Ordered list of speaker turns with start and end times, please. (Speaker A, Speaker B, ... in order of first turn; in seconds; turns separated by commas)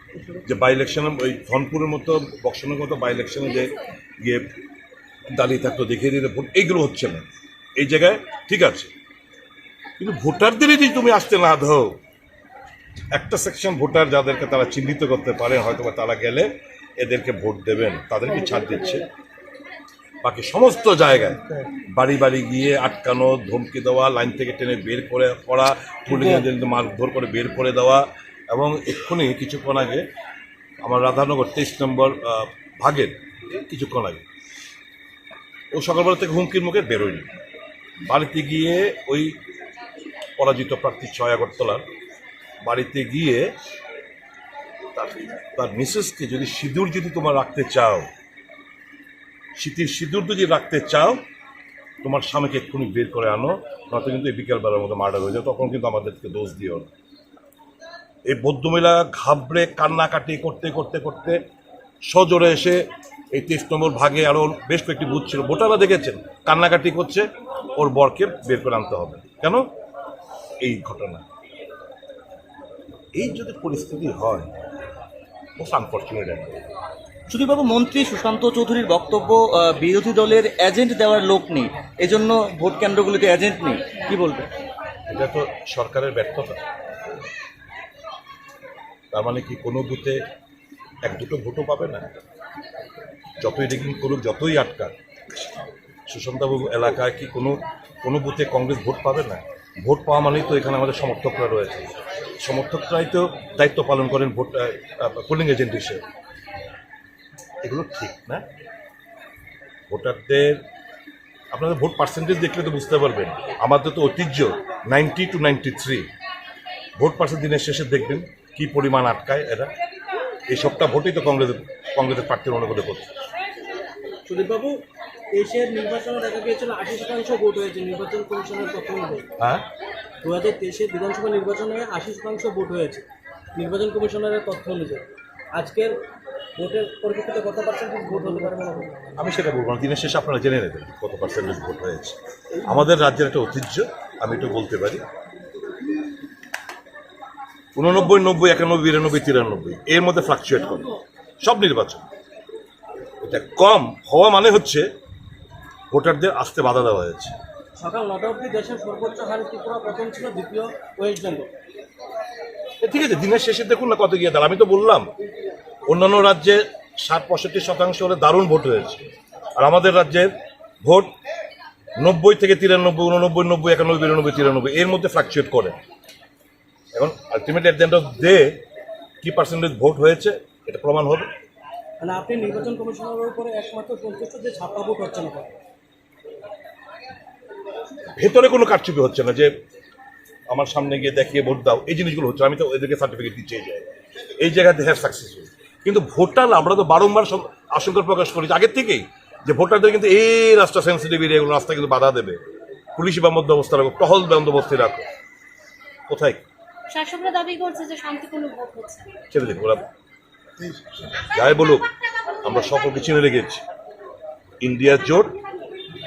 Speaker A: 0.5-4.4, Speaker A: 5.3-7.2, Speaker A: 7.8-8.9, Speaker A: 10.0-12.0, Speaker A: 13.1-19.1, Speaker A: 20.2-30.1, Speaker A: 30.8-34.2, Speaker A: 35.7-37.3, Speaker A: 38.1-39.4, Speaker A: 40.4-41.9, Speaker A: 42.7-43.5, Speaker A: 44.9-48.1, Speaker A: 49.6-51.2, Speaker A: 52.0-56.9, Speaker A: 58.3-61.4, Speaker A: 62.1-67.2, Speaker A: 67.8-69.6, Speaker A: 70.6-71.2, Speaker A: 73.2-74.5, Speaker A: 75.6-76.6, Speaker B: 77.3-84.5, Speaker A: 85.1-86.6, Speaker A: 89.1-90.3, Speaker A: 91.0-92.1, Speaker A: 93.4-94.9, Speaker A: 96.1-106.0, Speaker A: 107.6-108.4, Speaker A: 109.9-110.6, Speaker A: 111.5-116.1, Speaker A: 117.0-119.7, Speaker A: 120.5-123.1, Speaker C: 124.3-124.8, Speaker C: 125.4-129.2, Speaker A: 129.4-129.7, Speaker C: 130.2-133.1, Speaker C: 133.6-135.9, Speaker C: 136.6-139.0, Speaker A: 139.2-145.0, Speaker A: 147.8-152.1, Speaker A: 153.2-154.9, Speaker A: 155.9-157.4, Speaker C: 157.8-161.5, Speaker A: 162.8-165.1, Speaker A: 165.9-169.1, Speaker A: 169.6-170.3, Speaker A: 170.8-171.1, Speaker A: 172.0-175.8, Speaker A: 176.9-178.6, Speaker A: 179.2-181.3, Speaker C: 182.0-185.5, Speaker A: 188.2-189.5, Speaker A: 190.5-202.4, Speaker A: 202.9-205.1, Speaker A: 206.1-206.4, Speaker D: 206.9-209.1, Speaker A: 209.3-209.9, Speaker A: 211.0-211.9, Speaker A: 212.4-213.6, Speaker A: 214.6-215.4